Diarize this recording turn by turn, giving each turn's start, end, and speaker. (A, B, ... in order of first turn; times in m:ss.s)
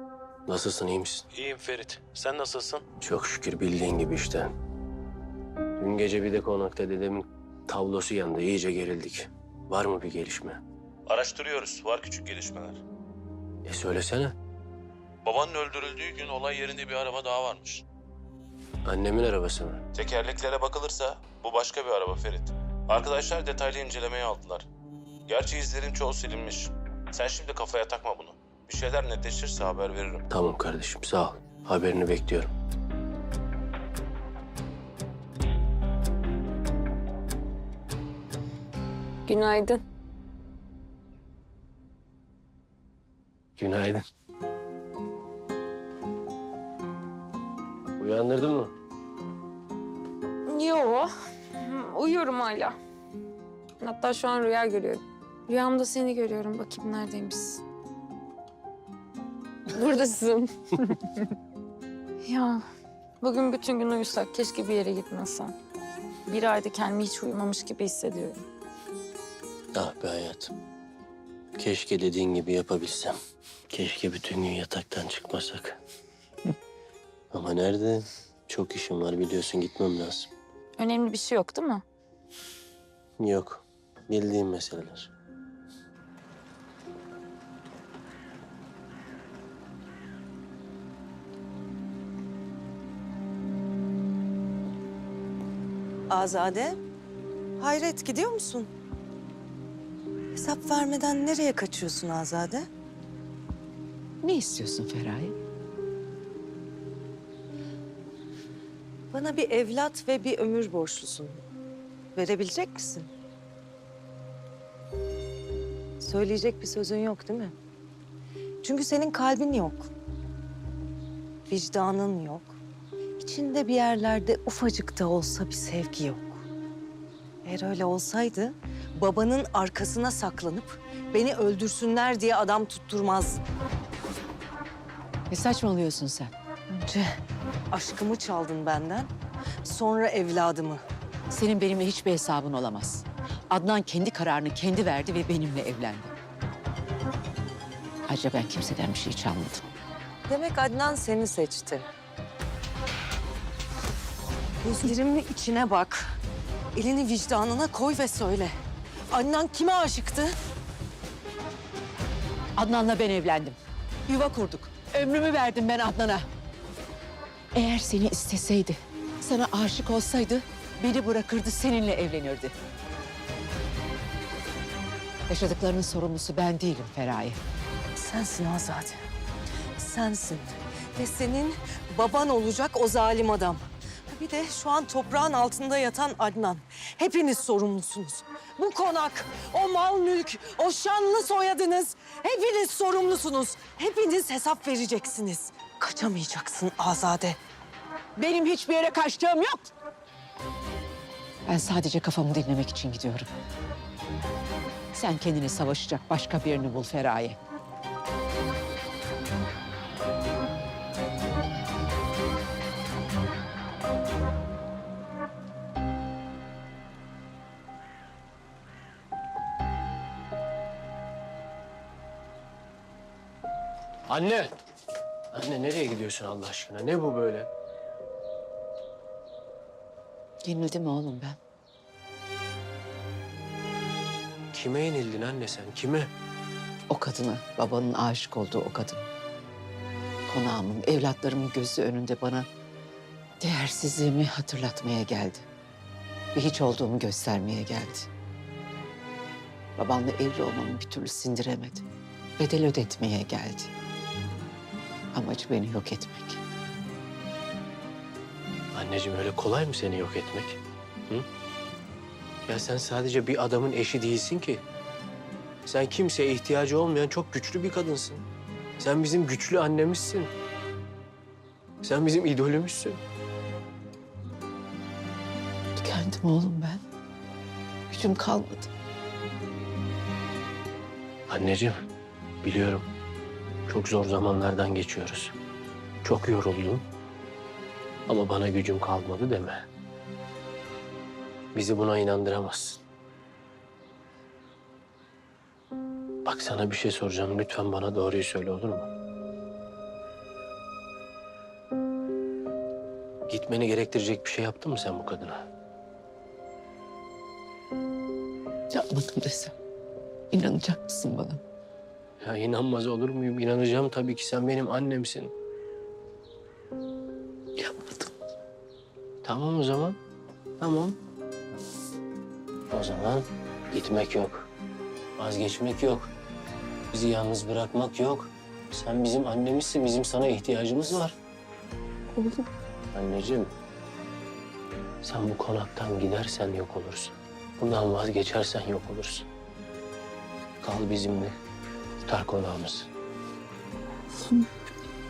0:00.5-0:01.3 A
0:01.3-0:02.8 B
0:03.0-0:04.5 A
0:05.8-0:10.6 A
0:11.1-0:12.8 B
0:13.6-0:14.3 A
0:15.2-0:17.8 B
0:18.8-0:19.8 A
0:19.9-0:24.7 B
0:25.3-0:30.2 B
0:30.3-0:32.5 A
0:39.2-0:39.8 C
0:43.6-0:44.0 A
0:48.0-0:48.7 A
0:50.4-0:52.8 C
0:53.8-0:57.6 C
0:59.7-1:01.2 C
1:02.2-1:02.6 C
1:03.2-1:05.5 C
1:06.3-1:08.4 C
1:09.7-1:10.5 A
1:11.6-1:13.2 A
1:13.7-1:15.8 A
1:17.3-1:20.3 A
1:20.8-1:21.8 C
1:23.2-1:25.1 A
1:36.1-1:36.8 D
1:37.6-1:38.7 D
1:40.3-1:42.7 D
1:44.2-1:45.4 E
1:49.1-1:51.4 D
1:52.1-1:53.1 D
1:56.0-1:57.6 D
1:58.6-1:59.9 D
2:01.5-2:02.6 D
2:03.2-2:06.4 D
2:07.4-2:13.4 D
2:15.3-2:16.3 E
2:16.7-2:17.1 D
2:17.7-2:19.1 D
2:19.6-2:20.8 D
2:21.3-2:26.1 E
2:28.1-2:29.6 E
2:30.3-2:31.9 D
2:34.6-2:36.2 D
2:36.7-2:38.6 D
2:39.1-2:40.3 D
2:42.6-2:46.3 E
2:47.5-2:52.5 E
2:55.3-2:57.4 E
2:58.0-2:59.0 D
2:59.8-3:17.4 D
3:18.2-3:19.7 E
3:21.4-3:23.3 E
3:24.9-3:27.4 E
3:44.1-3:44.5 A
3:45.3-3:47.5 A
3:50.4-3:51.4 E
3:54.5-3:56.1 A
3:56.9-3:59.1 E
4:00.3-4:02.5 E
4:03.4-4:05.5 E
4:06.3-4:08.1 E
4:09.8-4:11.8 E
4:12.4-4:13.7 E
4:15.1-4:16.4 E
4:18.7-4:21.2 A
4:22.5-4:24.6 A
4:25.6-4:28.2 A
4:28.8-4:30.3 A
4:31.8-4:33.0 A
4:35.8-4:36.8 E
4:37.9-4:38.7 E
4:41.3-4:41.8 A
4:42.4-4:42.9 A
4:43.7-4:45.3 A
4:46.0-4:46.8 A
4:48.1-4:49.6 A
4:51.5-4:52.8 A
4:56.2-4:58.9 A
5:03.3-5:05.4 A
5:08.7-5:09.5 E
5:10.3-5:11.4 E
5:12.2-5:15.3 A
5:17.6-5:18.1 E
5:19.2-5:20.0 A
5:20.6-5:21.0 A
5:22.7-5:24.5 A
5:25.2-5:26.1 A
5:26.9-5:31.1 A
5:32.9-5:33.5 A
5:35.0-5:39.3 A
5:40.6-5:41.3 A
5:42.0-5:42.9 A